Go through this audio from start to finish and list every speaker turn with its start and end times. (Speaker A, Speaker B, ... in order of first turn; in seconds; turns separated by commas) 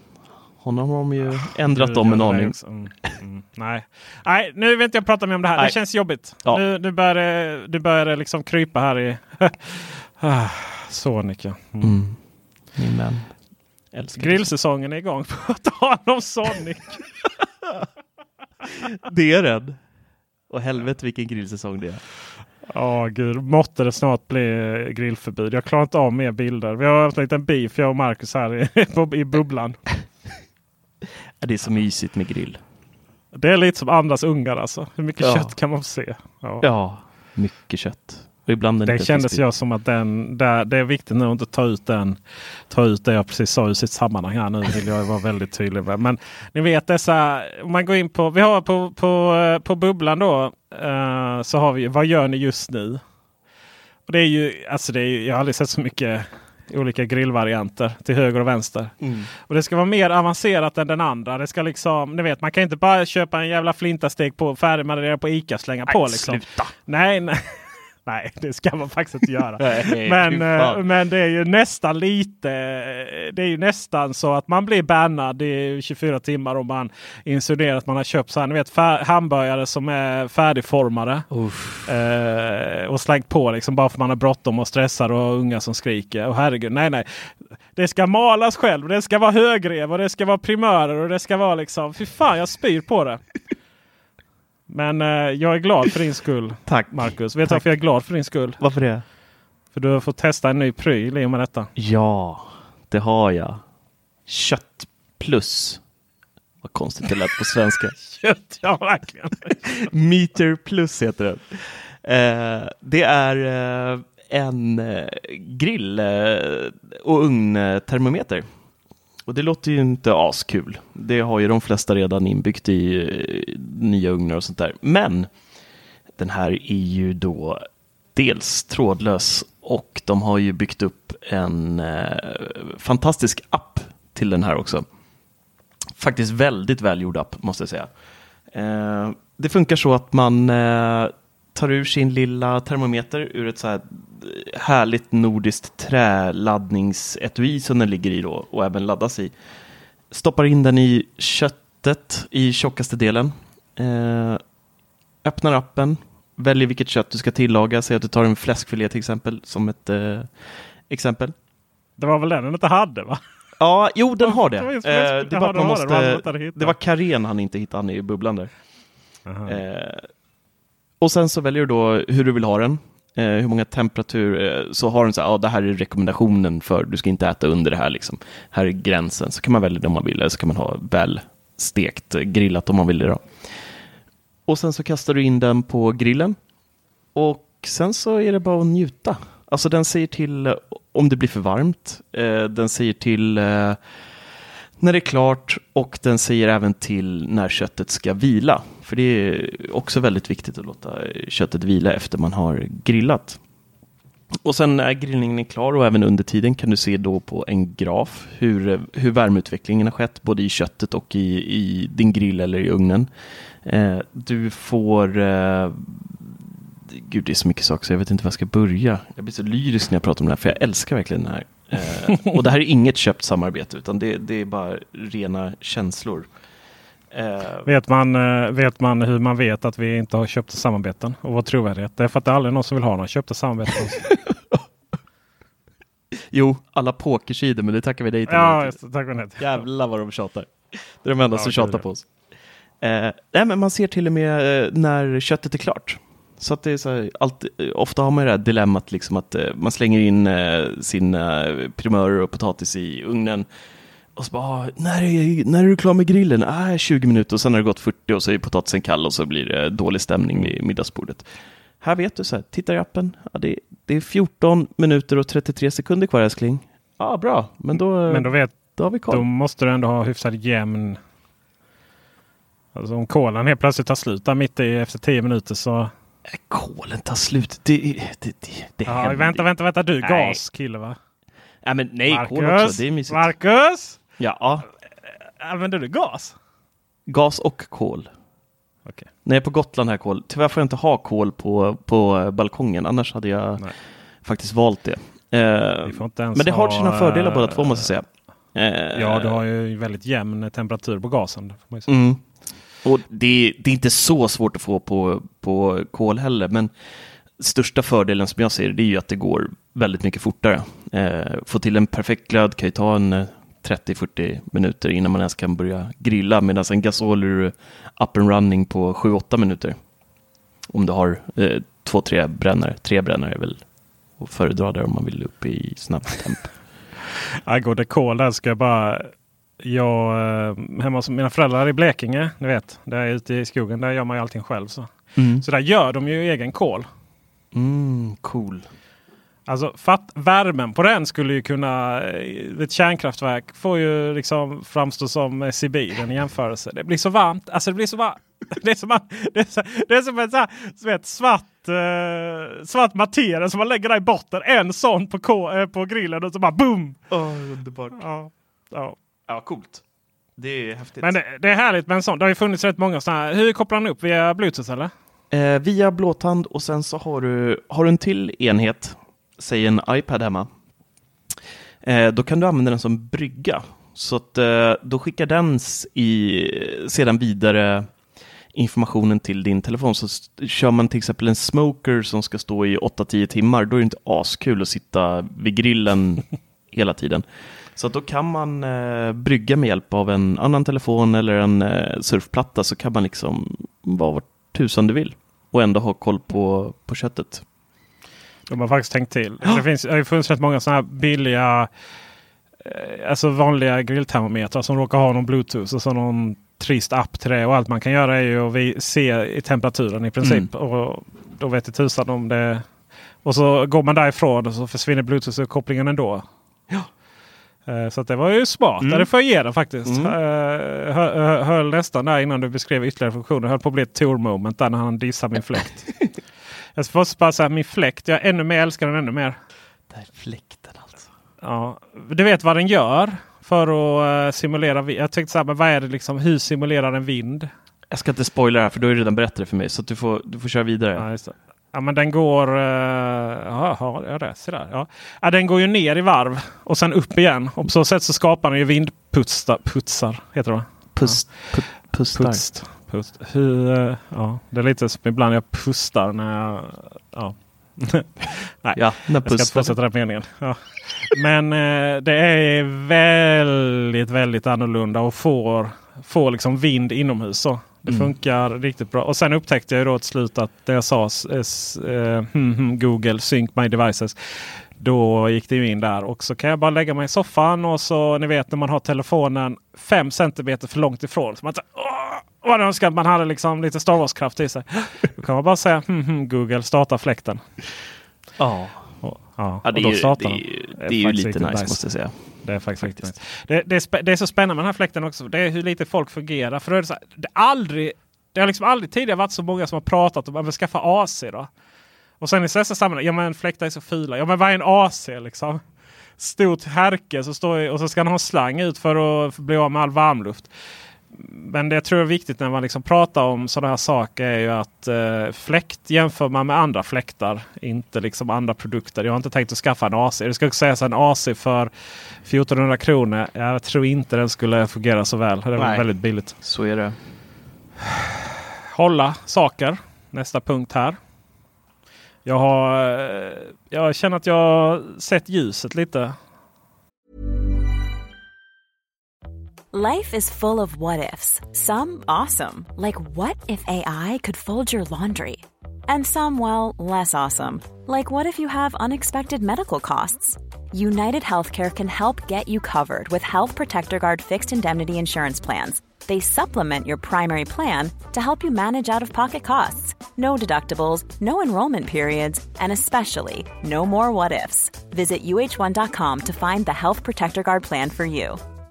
Speaker A: 0.6-2.6, Speaker B: 1.4-12.0, Speaker A: 11.8-12.2, Speaker A: 12.7-13.3, Speaker A: 13.9-14.5, Speaker B: 14.2-17.0, Speaker A: 18.9-19.8, Speaker A: 20.5-22.0, Speaker B: 22.7-29.8, Speaker A: 31.4-32.6, Speaker B: 33.3-36.6, Speaker A: 35.2-35.5, Speaker A: 36.6-39.4, Speaker B: 38.9-42.2, Speaker B: 42.7-53.0, Speaker B: 54.1-81.3, Speaker A: 59.0-59.3, Speaker A: 65.9-66.7, Speaker A: 69.6-70.8, Speaker A: 81.3-81.9, Speaker B: 81.9-87.1, Speaker B: 87.7-93.2, Speaker B: 94.7-98.6, Speaker A: 96.7-97.7, Speaker A: 98.6-99.0, Speaker B: 99.7-101.7, Speaker A: 101.8-103.6, Speaker A: 104.3-105.8, Speaker A: 106.6-107.9, Speaker B: 108.0-109.6, Speaker A: 109.7-118.5, Speaker A: 119.3-125.3, Speaker A: 126.2-127.6, Speaker A: 128.1-134.9, Speaker A: 136.0-137.9, Speaker A: 138.5-149.3, Speaker A: 150.1-154.4, Speaker A: 155.2-161.3, Speaker B: 162.0-163.2, Speaker A: 163.6-168.5, Speaker B: 164.2-166.7, Speaker B: 169.2-169.6, Speaker A: 169.5-170.1, Speaker A: 171.0-183.6, Speaker A: 184.5-186.4, Speaker A: 187.1-193.8, Speaker A: 194.8-203.4, Speaker A: 204.4-213.1, Speaker A: 213.6-226.3, Speaker A: 227.1-227.7, Speaker B: 227.7-234.0, Speaker A: 234.0-234.6, Speaker A: 236.3-238.8, Speaker B: 238.3-239.6, Speaker A: 239.4-242.1, Speaker B: 241.3-241.8, Speaker A: 242.8-253.5, Speaker A: 254.2-261.3, Speaker A: 261.8-269.2, Speaker B: 268.1-268.6, Speaker B: 269.1-271.0, Speaker B: 272.7-275.9, Speaker A: 276.3-279.4, Speaker B: 278.9-281.0, Speaker A: 280.0-280.4, Speaker A: 281.6-283.3, Speaker B: 282.1-284.0, Speaker A: 284.2-284.7, Speaker B: 285.4-286.3, Speaker A: 287.1-288.1, Speaker A: 289.2-293.7, Speaker A: 294.2-299.4, Speaker B: 295.9-297.9, Speaker B: 298.9-301.9, Speaker A: 301.9-302.2, Speaker A: 302.8-306.7, Speaker A: 307.4-319.8, Speaker A: 320.7-323.6, Speaker A: 324.2-326.5, Speaker B: 327.5-329.1, Speaker B: 329.6-336.9, Speaker A: 335.1-335.4, Speaker A: 337.5-338.7, Speaker B: 339.5-357.0, Speaker A: 357.1-358.0, Speaker B: 357.9-358.9, Speaker A: 359.3-359.8, Speaker A: 360.4-361.1, Speaker B: 361.0-364.9, Speaker A: 365.3-370.5, Speaker A: 371.8-377.9, Speaker A: 378.5-397.4, Speaker B: 398.5-401.7, Speaker B: 402.6-412.6, Speaker A: 410.2-410.5, Speaker B: 413.2-416.2, Speaker B: 417.7-425.9, Speaker A: 418.8-419.1, Speaker A: 419.9-420.1, Speaker B: 426.8-429.4, Speaker A: 429.9-431.0, Speaker B: 431.4-437.5, Speaker A: 437.9-441.1, Speaker B: 441.0-474.1, Speaker A: 450.9-452.4, Speaker A: 458.7-459.7, Speaker B: 474.8-487.4, Speaker A: 488.4-488.9, Speaker B: 489.0-491.8, Speaker A: 489.6-493.0, Speaker B: 492.4-501.5, Speaker B: 502.2-505.6, Speaker B: 506.2-510.5, Speaker B: 511.1-521.7, Speaker B: 522.2-526.4, Speaker A: 525.5-525.9, Speaker A: 526.4-527.0, Speaker B: 528.7-531.0, Speaker B: 532.2-536.1, Speaker C: 539.7-568.4